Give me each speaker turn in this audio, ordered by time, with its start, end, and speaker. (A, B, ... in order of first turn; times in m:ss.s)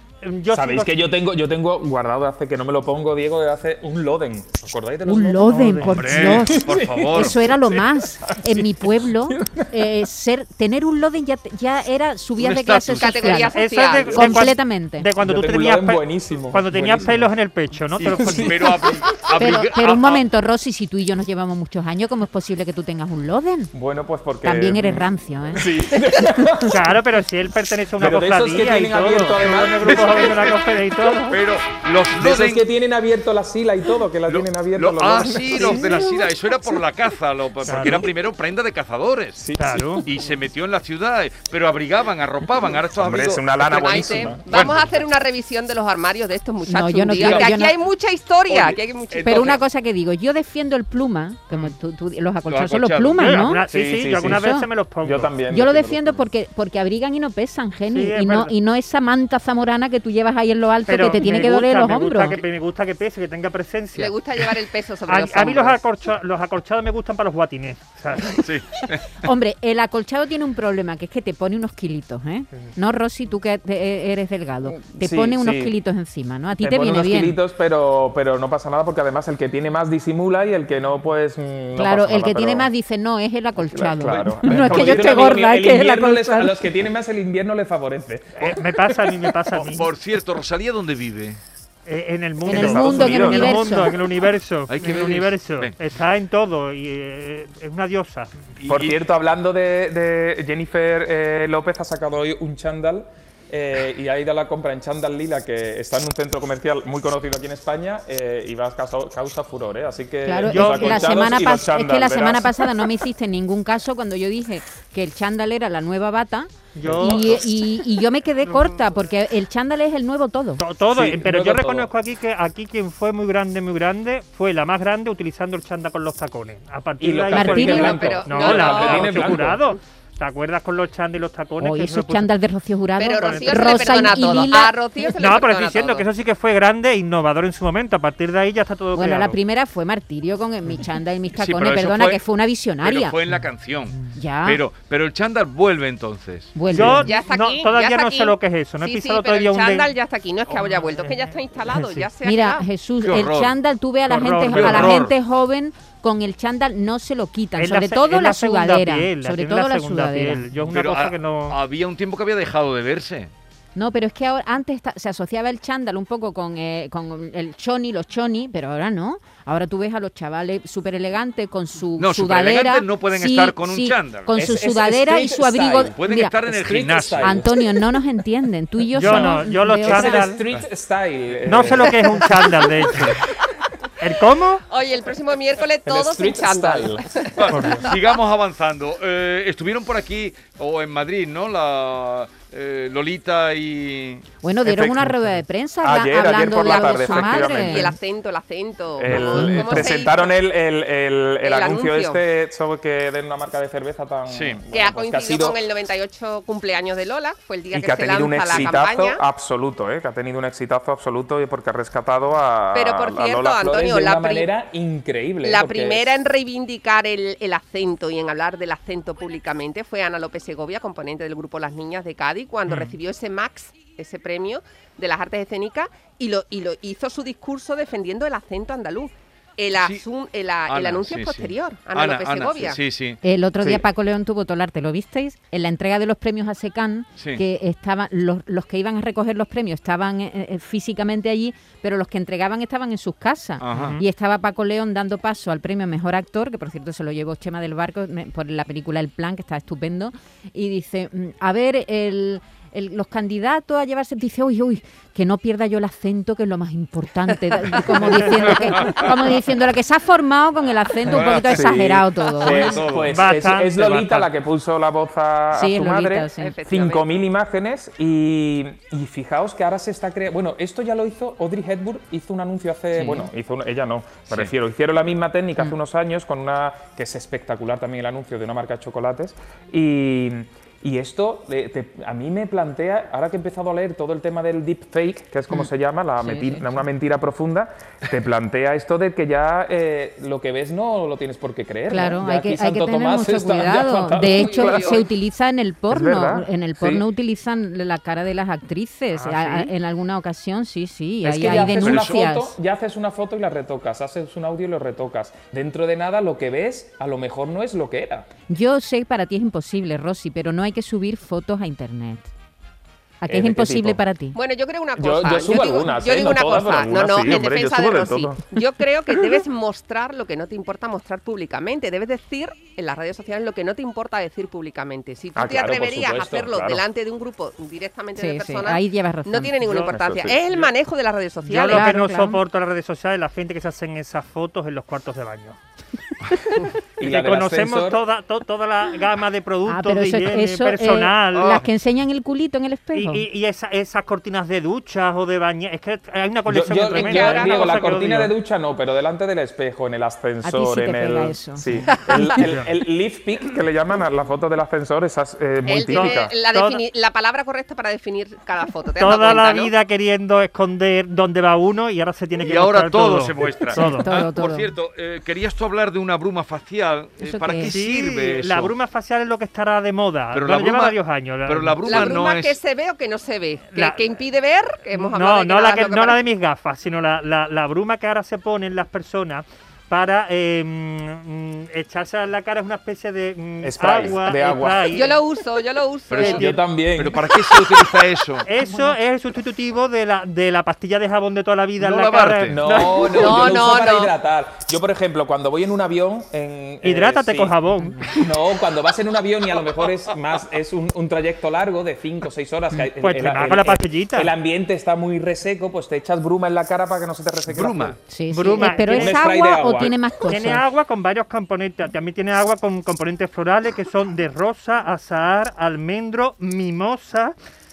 0:00.2-0:01.0 A
0:00.5-0:10.0 B
0:05.1-0:13.5 C
0:05.6-0:05.9 A
0:06.0-0:07.5 D
0:12.4-0:13.5 D
0:13.0-0:14.5 E
0:13.4-0:18.7 A
0:14.1-0:15.1 C
0:15.2-0:17.3 B
0:18.0-0:18.8 B
0:18.0-0:20.2 D
0:19.4-0:23.7 C
0:23.7-0:27.0 B
0:24.4-0:25.7 C
0:26.6-0:31.4 A
0:28.0-0:30.3 B
0:29.9-0:30.5 D
0:31.3-0:32.6 D
0:32.1-0:36.2 B
0:34.3-0:39.4 D
0:37.6-0:38.0 A
0:39.4-0:40.1 B
0:39.6-0:40.0 A
0:40.0-0:44.9 D
0:43.0-0:44.4 B
0:43.6-0:49.6 E
0:46.6-0:47.7 C
0:47.2-0:47.5 D
0:48.5-0:49.6 D
0:49.2-0:53.6 C
0:52.5-0:53.3 D
0:53.2-0:55.3 A
0:53.7-0:54.4 B
0:54.2-0:54.7 C
0:55.0-0:56.2 B
0:55.5-1:02.4 C
0:57.9-0:58.6 A
1:00.9-1:04.2 A
1:04.0-1:05.8 E
1:05.1-1:08.5 A
1:08.4-1:09.3 D
1:09.2-1:17.4 C
1:14.6-1:15.7 B
1:16.6-1:22.7 B
1:21.8-1:26.6 C
1:23.7-1:29.3 B
1:24.5-1:25.1 D
1:28.4-1:29.9 A
1:29.6-1:31.4 D
1:31.9-1:38.3 A
1:32.4-1:33.9 C
1:32.5-1:33.6 B
1:34.7-1:35.7 D
1:38.6-1:39.0 D
1:38.7-1:52.6 B
1:50.3-2:00.6 C
1:50.5-1:51.2 A
1:56.8-1:57.3 A
1:56.9-1:57.4 B
2:00.6-2:12.3 A
2:00.9-2:01.9 B
2:07.0-2:09.6 B
2:07.3-2:08.2 C
2:07.7-2:09.4 E
2:11.6-2:14.8 C
2:13.0-2:16.0 E
2:13.1-2:14.2 A
2:15.0-2:19.4 A
2:19.0-2:23.2 C
2:21.3-2:22.2 D
2:22.8-2:26.9 D
2:24.1-2:24.6 C
2:26.6-2:27.1 C
2:26.7-2:29.9 A
2:27.0-2:32.7 E
2:30.6-2:31.2 A
2:31.7-2:32.1 A
2:32.2-2:40.6 C
2:33.0-2:33.6 D
2:34.1-2:35.0 A
2:34.5-2:35.2 D
2:37.6-2:41.6 A
2:40.7-2:43.3 D
2:43.8-2:56.4 C
2:52.0-2:54.3 D
2:54.4-2:57.7 B
2:56.0-2:57.4 D
2:57.2-3:00.4 C
2:58.9-3:00.4 A
2:59.0-3:02.4 B
3:01.5-3:03.2 A
3:04.0-3:04.6 A
3:04.7-3:07.6 E
3:05.8-3:07.1 B
3:07.4-3:14.3 D
3:07.5-3:07.9 A
3:14.4-3:18.0 C
3:14.6-3:18.0 B
3:16.5-3:20.3 E
3:19.0-3:25.6 B
3:19.2-3:19.7 C
3:21.4-3:22.2 E
3:24.3-3:24.6 D
3:24.7-3:29.2 E
3:27.7-3:36.2 B
3:32.7-3:34.5 E
3:35.4-3:52.8 E
3:49.8-3:50.0 D
3:50.7-3:53.8 D
3:53.2-4:22.8 C
4:03.6-4:04.0 D
4:03.7-4:04.0 A
4:18.5-4:19.1 D
4:21.1-4:21.8 D
4:21.3-4:55.0 B
4:22.4-4:23.1 D
4:23.1-4:24.3 A
4:25.5-4:26.5 C
4:26.4-4:27.1 E
4:33.0-4:33.3 C
4:46.2-4:46.6 C
4:51.9-5:02.5 C
4:54.1-4:55.1 E
4:55.9-4:57.0 B
4:59.1-4:59.7 A
5:01.2-5:08.3 B
5:01.4-5:02.2 D
5:08.5-5:12.3 C
5:13.2-5:14.4 C
5:13.3-5:14.0 B
5:14.3-5:31.9 E
5:15.0-5:18.4 B
5:25.4-5:26.8 B
5:28.2-5:29.6 C
5:29.6-5:29.9 A
5:29.9-5:30.4 B
5:31.5-5:35.6 A
5:31.7-5:32.4 C
5:37.0-5:38.0 B
5:37.0-5:41.6 A
5:39.7-5:43.2 C
5:41.4-5:41.7 D
5:42.9-5:48.3 A
5:46.5-5:56.3 B
5:46.9-5:47.7 E
5:50.4-5:52.4 C
5:52.3-5:52.7 A
5:55.6-5:59.7 E
5:55.9-5:56.8 A
5:59.0-6:04.1 A
6:02.4-6:08.7 D
6:03.7-6:04.7 C
6:07.2-6:07.7 C
6:07.6-6:12.2 A
6:10.3-6:12.6 D
6:11.9-6:16.2 E
6:13.7-6:14.0 A
6:15.0-6:25.2 A
6:23.6-6:24.9 B
6:24.9-6:26.5 E
6:26.1-6:28.5 D
6:26.2-6:26.6 A
6:26.2-6:27.9 B
6:28.5-6:32.9 A
6:31.8-6:32.6 D
6:32.5-6:37.6 B
6:32.7-6:34.1 E
6:36.8-6:38.2 A
6:38.1-6:48.0 B
6:43.0-6:44.3 A
6:47.5-6:48.0 D
6:48.1-6:50.6 C
6:48.3-6:49.2 A
6:48.9-6:50.0 B
6:50.3-6:57.3 A